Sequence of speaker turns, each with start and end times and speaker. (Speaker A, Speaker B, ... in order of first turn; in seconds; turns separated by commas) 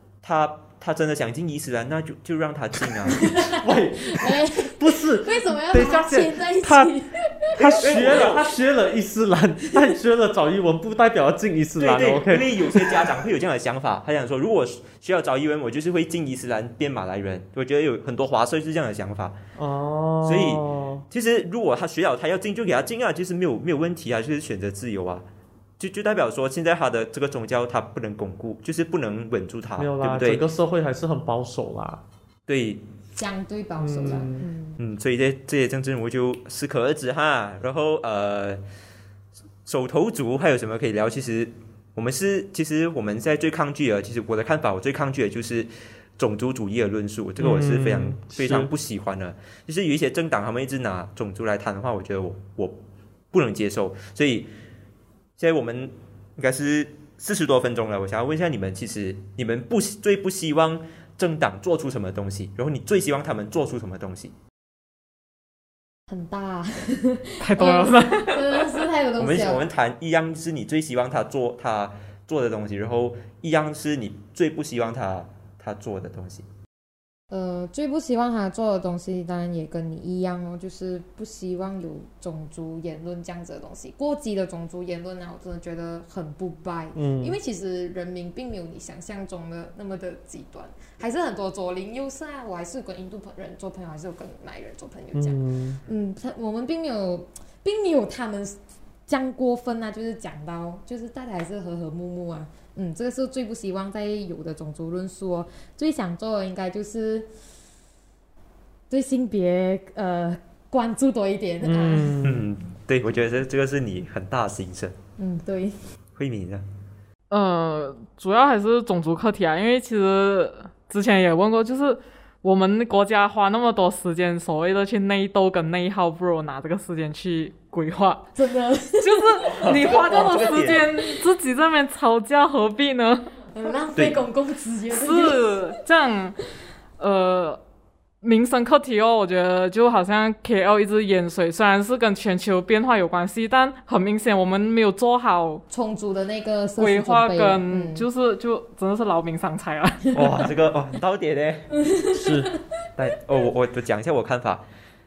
Speaker A: 0.2-3.3, Speaker B: 3.2-8.4, Speaker C: 3.4-6.9, Speaker C: 7.5-13.1, Speaker A: 7.6-8.4, Speaker B: 9.6-10.0, Speaker A: 11.8-19.4, Speaker C: 19.6-21.1, Speaker A: 20.2-25.2, Speaker A: 25.8-30.4, Speaker C: 29.8-32.0, Speaker A: 32.5-32.8, Speaker B: 33.2-34.8, Speaker C: 33.8-34.5, Speaker A: 34.8-38.6, Speaker A: 39.7-52.8, Speaker C: 47.4-48.7, Speaker A: 53.3-54.5, Speaker A: 55.4-64.3, Speaker B: 66.1-69.6, Speaker D: 67.4-68.8, Speaker A: 69.2-76.5, Speaker B: 77.3-107.3, Speaker C: 87.0-87.4, Speaker C: 95.1-95.8, Speaker B: 108.9-112.2, Speaker C: 111.6-112.5, Speaker A: 112.2-115.0, Speaker B: 115.2-115.8, Speaker A: 116.2-116.6, Speaker D: 117.3-128.3, Speaker B: 128.3-129.6, Speaker D: 129.0-133.3, Speaker A: 129.5-130.8, Speaker B: 130.6-131.0, Speaker B: 133.5-135.8, Speaker D: 134.9-136.4, Speaker D: 137.0-137.6, Speaker D: 138.2-145.6, Speaker B: 145.7-148.1, Speaker D: 146.8-150.1, Speaker B: 150.1-150.5, Speaker A: 150.2-151.7, Speaker B: 151.8-152.6, Speaker C: 152.1-152.5, Speaker A: 153.0-154.6